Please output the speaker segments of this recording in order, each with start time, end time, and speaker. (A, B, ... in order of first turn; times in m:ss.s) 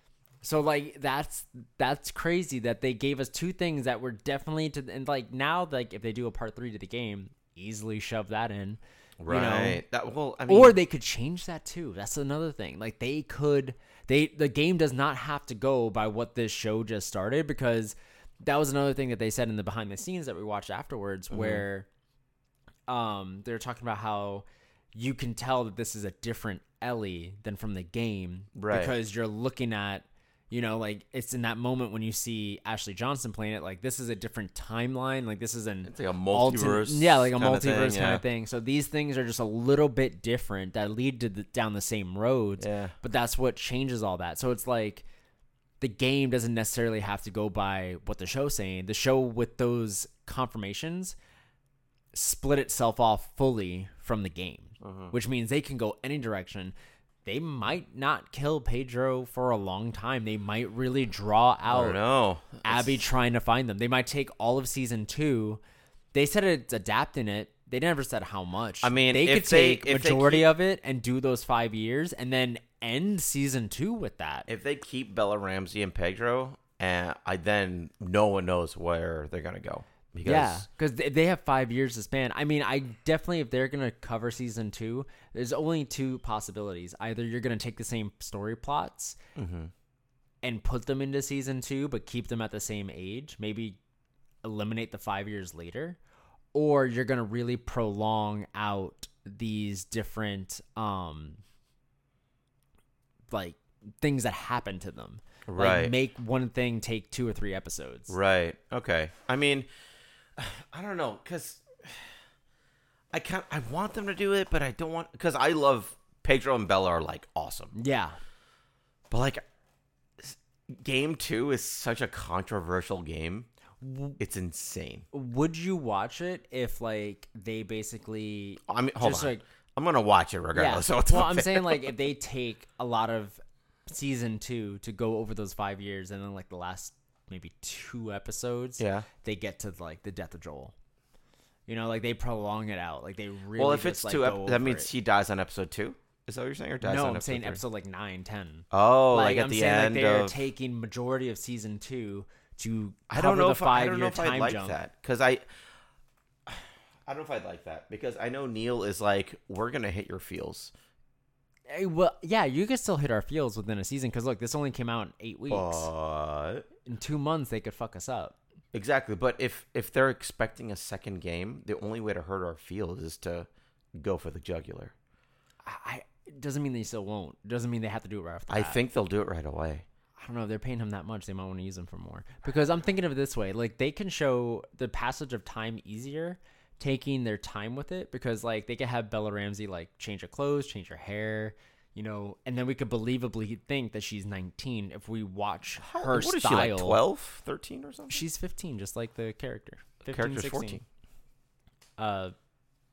0:00.4-0:09.8 A
0:09.2-0:10.8 B
0:10.5-0:21.9 A
0:21.3-0:21.6 B
0:22.9-0:45.0 A
0:28.6-0:29.0 B
0:35.8-0:38.2 B
0:42.6-0:42.9 B
0:45.8-0:51.2 A
0:52.1-0:56.7 A
0:54.8-0:55.1 B
0:57.2-1:02.0 A
1:01.7-1:03.0 B
1:02.6-1:05.6 A
1:06.1-1:14.5 A
1:08.8-1:10.5 B
1:14.5-1:20.7 B
1:20.2-1:29.2 A
1:29.4-1:29.7 B
1:30.4-1:33.8 A
1:34.4-1:36.0 A
1:36.5-1:41.4 A
1:43.3-1:48.1 A
1:45.5-1:45.9 B
1:48.1-1:49.7 B
1:50.4-1:52.1 B
1:53.1-1:57.7 B
1:57.7-1:58.2 A
1:59.1-1:59.4 B
2:00.2-2:03.5 B
2:03.8-2:04.2 A
2:04.2-2:05.1 B
2:05.1-2:09.4 A
2:08.7-2:11.9 B
2:10.6-2:20.7 A
2:18.8-2:19.1 B
2:21.7-2:24.9 A
2:23.6-2:27.6 B
2:26.8-2:34.8 A
2:28.7-2:30.4 B
2:33.1-2:35.4 B
2:36.5-2:40.7 B
2:41.7-2:45.9 A
2:45.5-2:46.7 B
2:46.8-2:48.4 A
2:48.7-2:54.9 B
2:55.6-2:58.8 A
2:58.5-2:59.8 B
3:00.2-3:17.0 A
3:15.9-3:18.2 B
3:18.1-3:20.8 A
3:20.1-3:20.8 B
3:22.0-3:22.4 A